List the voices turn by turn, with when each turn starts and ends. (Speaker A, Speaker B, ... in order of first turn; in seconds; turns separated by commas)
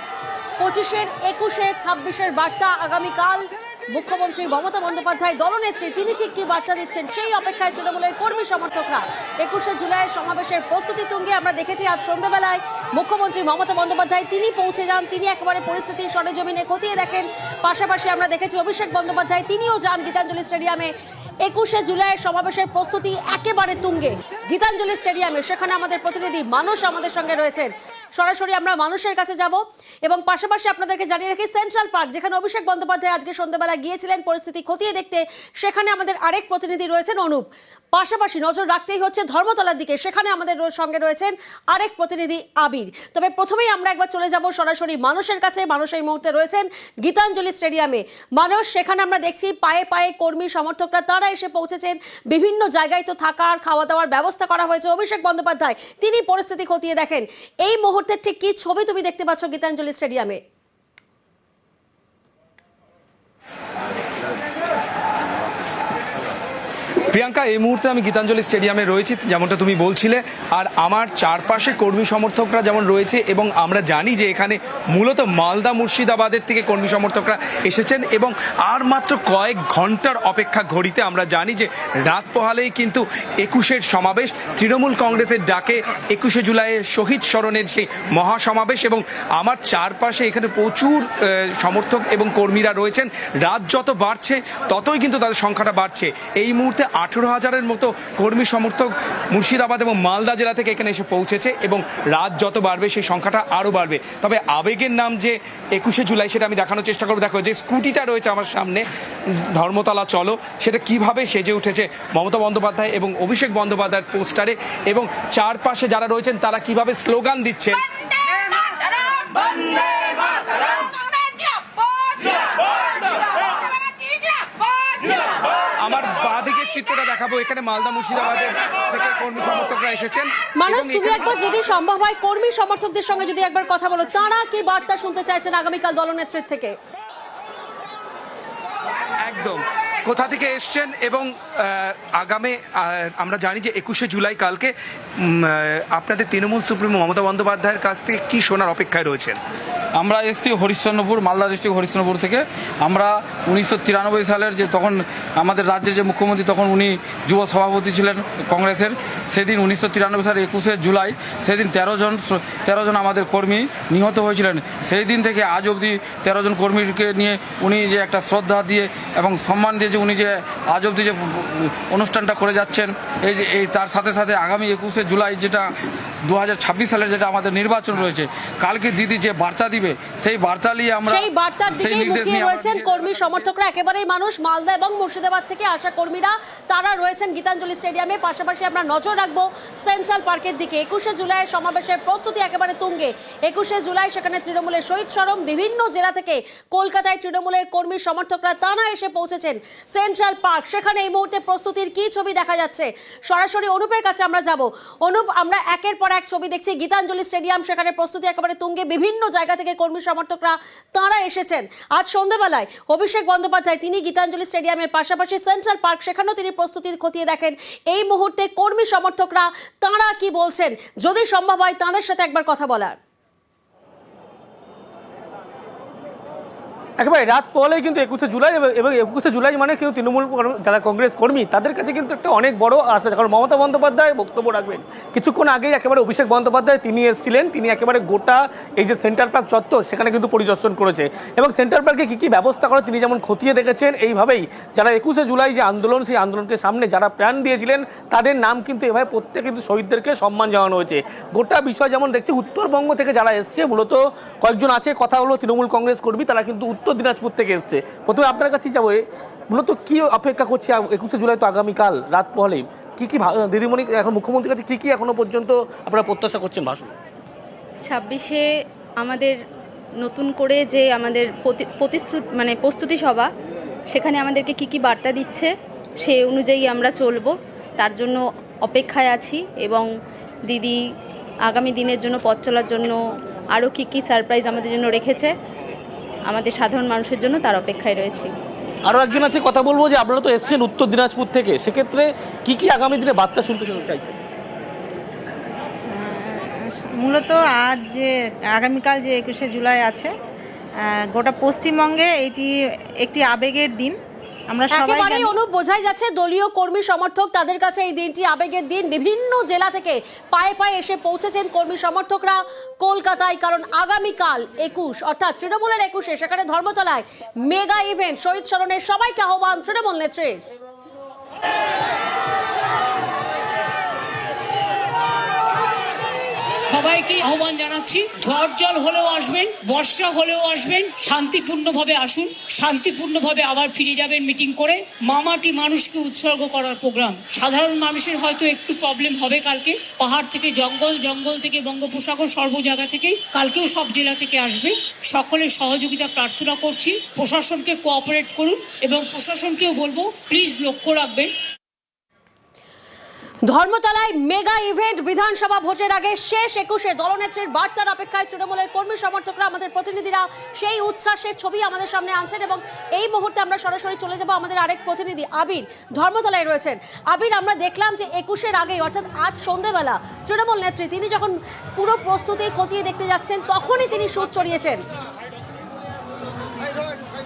Speaker A: 0.6-20.9, Speaker A: 21.4-60.4, Speaker B: 67.1-117.8, Speaker B: 125.8-131.4, Speaker A: 130.6-136.8, Speaker B: 139.2-149.4, Speaker C: 150.0-175.7, Speaker C: 176.3-181.2, Speaker A: 181.0-223.0, Speaker C: 181.9-182.9, Speaker D: 227.0-266.9, Speaker E: 267.8-268.4, Speaker E: 269.0-269.4, Speaker E: 270.0-273.3, Speaker E: 273.9-279.9, Speaker E: 280.5-280.8, Speaker E: 281.4-283.0, Speaker E: 283.5-285.3, Speaker E: 286.3-288.3, Speaker D: 288.8-294.1, Speaker F: 295.9-300.1, Speaker F: 301.1-302.5, Speaker F: 303.0-303.9, Speaker F: 304.5-305.3, Speaker A: 304.7-320.4, Speaker G: 326.7-351.3, Speaker A: 353.4-374.8